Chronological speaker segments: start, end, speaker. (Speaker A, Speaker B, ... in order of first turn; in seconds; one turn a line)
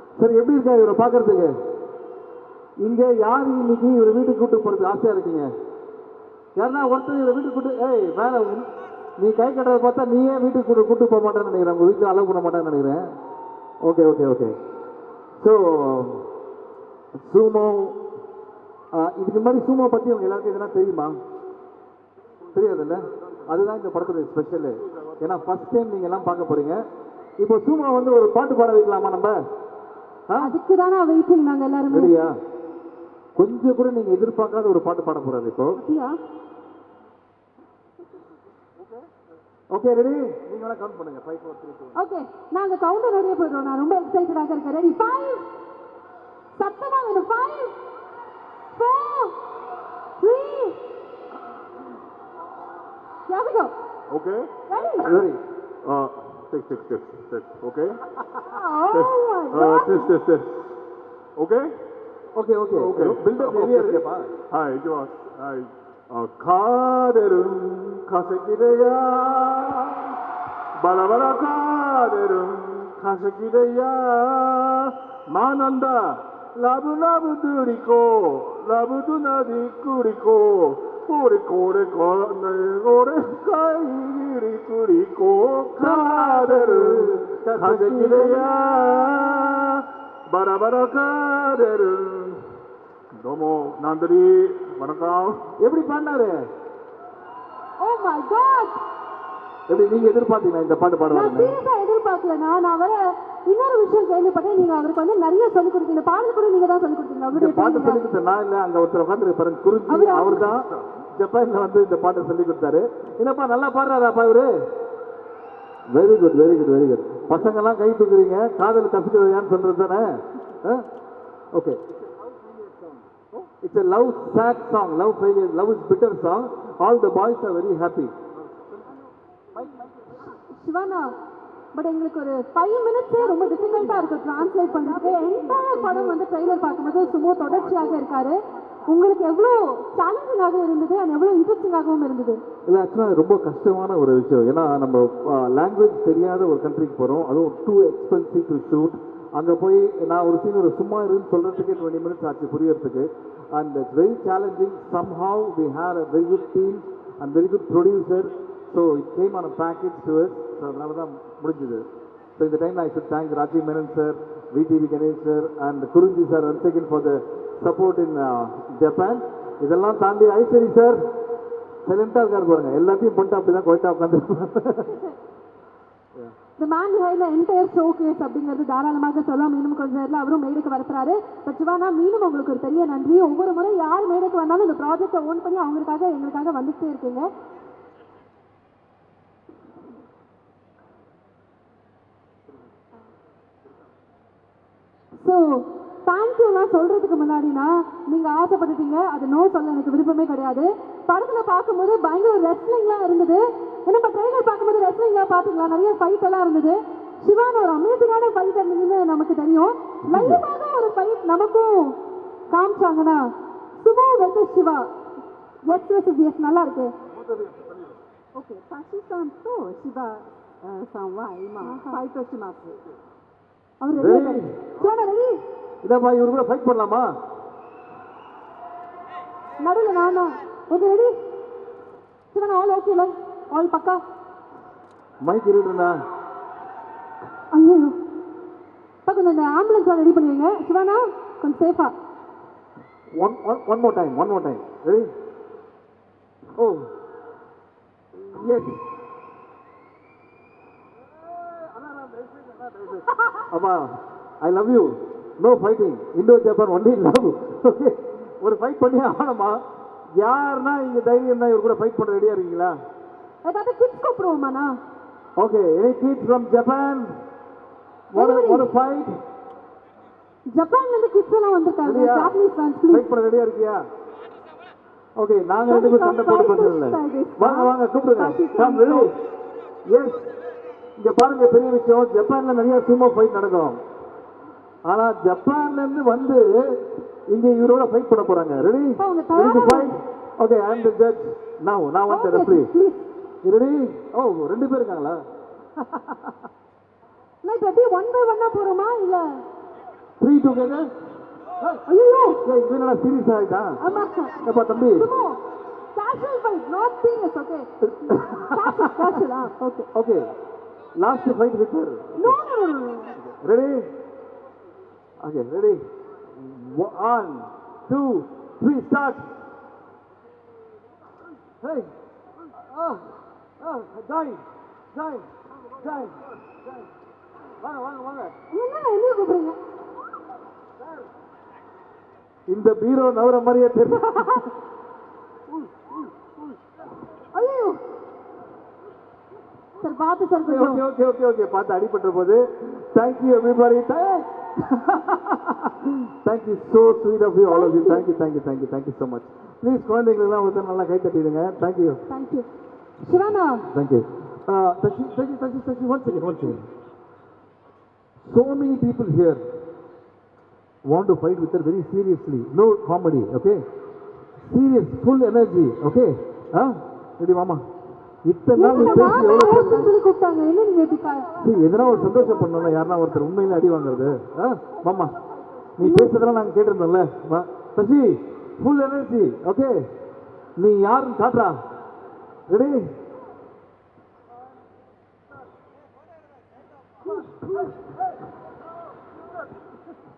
Speaker A: 0.2-1.5
Speaker A: 2.8-5.5
Speaker A: 6.6-8.7
Speaker A: 9.2-13.1
Speaker A: 13.8-14.6
Speaker A: 15.4-16.2
Speaker A: 17.2-18.0
Speaker A: 18.9-21.2
Speaker A: 22.6-26.8
Speaker A: 27.4-29.4
Speaker A: 30.3-30.5
Speaker B: 30.4-32.1
Speaker A: 31.9-32.3
Speaker A: 33.4-35.8
Speaker B: 35.8-36.2
Speaker A: 39.7-42.0
Speaker B: 42.0-45.4
Speaker B: 46.6-47.7
Speaker B: 48.7-49.4
Speaker B: 50.2-50.8
Speaker B: 53.3-53.7
Speaker C: 54.1-54.5
Speaker B: 54.7-55.1
Speaker A: 55.0-55.4
Speaker C: 55.8-58.0
Speaker B: 58.4-60.1
Speaker C: 58.9-60.6
Speaker C: 61.4-61.8
Speaker A: 62.4-64.3
Speaker C: 62.7-70.1
Speaker C: 70.8-92.4
Speaker A: 85.8-88.5
Speaker C: 93.2-95.5
Speaker A: 95.6-96.4
Speaker B: 97.8-98.8
Speaker A: 99.7-101.6
Speaker B: 101.1-108.0
Speaker A: 107.3-114.5
Speaker B: 109.9-110.5
Speaker A: 115.9-120.1
Speaker A: 121.5-121.8
Speaker A: 123.4-128.1
Speaker B: 130.2-131.1
Speaker B: 131.7-142.4
Speaker D: 133.2-137.0
Speaker A: 142.7-161.8
Speaker A: 162.4-171.0
Speaker A: 171.8-175.0
Speaker B: 176.6-187.3
Speaker B: 195.2-212.0
Speaker A: 210.1-210.4
Speaker B: 212.5-213.2
Speaker B: 213.8-214.9
Speaker B: 215.7-216.9
Speaker D: 218.3-222.8
Speaker B: 221.6-222.0
Speaker B: 223.8-225.4
Speaker A: 224.0-224.5
Speaker A: 225.8-227.1
Speaker B: 229.6-231.1
Speaker B: 232.3-234.0
Speaker A: 235.2-236.0
Speaker B: 237.5-238.0
Speaker B: 239.1-241.9
Speaker A: 243.2-245.1
Speaker A: 246.6-246.9
Speaker A: 248.2-248.8
Speaker A: 251.5-259.6
Speaker A: 260.2-262.7
Speaker B: 263.4-264.8
Speaker A: 265.4-267.1
Speaker A: 268.1-269.1
Speaker B: 268.1-268.7
Speaker B: 270.5-273.1
Speaker A: 271.9-272.4
Speaker A: 272.9-273.8
Speaker A: 275.2-279.1
Speaker D: 275.7-279.1
Speaker B: 278.2-278.8
Speaker A: 279.9-280.2
Speaker A: 281.0-283.8
Speaker A: 284.9-286.6
Speaker A: 287.3-292.7
Speaker B: 289.0-289.9
Speaker B: 292.1-293.1
Speaker A: 293.4-295.2
Speaker A: 295.8-296.3
Speaker B: 297.4-299.4
Speaker A: 300.2-300.9
Speaker B: 301.9-302.4
Speaker A: 302.4-303.8
Speaker B: 303.8-305.4
Speaker A: 304.4-305.1
Speaker B: 305.9-309.9
Speaker A: 307.8-308.9
Speaker A: 309.9-310.3
Speaker A: 311.0-312.4
Speaker B: 312.2-313.2
Speaker A: 313.2-313.9
Speaker A: 315.2-315.8
Speaker A: 316.3-319.2
Speaker A: 321.6-321.9
Speaker A: 322.5-324.4
Speaker A: 324.9-326.6
Speaker A: 327.6-328.3
Speaker B: 328.5-329.6
Speaker A: 332.5-334.5
Speaker B: 337.3-337.8
Speaker B: 339.8-340.8
Speaker A: 340.4-352.0
Speaker B: 347.5-348.1
Speaker B: 352.1-352.5
Speaker B: 353.0-353.7
Speaker A: 353.7-356.6
Speaker A: 358.3-359.4
Speaker A: 360.9-363.6
Speaker A: 364.5-367.6
Speaker A: 368.3-369.9
Speaker B: 368.6-372.5
Speaker D: 368.7-369.7
Speaker D: 371.1-373.1
Speaker A: 371.4-375.2
Speaker D: 374.9-375.7
Speaker A: 375.8-379.8
Speaker B: 375.8-376.1
Speaker A: 380.6-381.6
Speaker A: 382.5-382.9
Speaker B: 387.1-387.7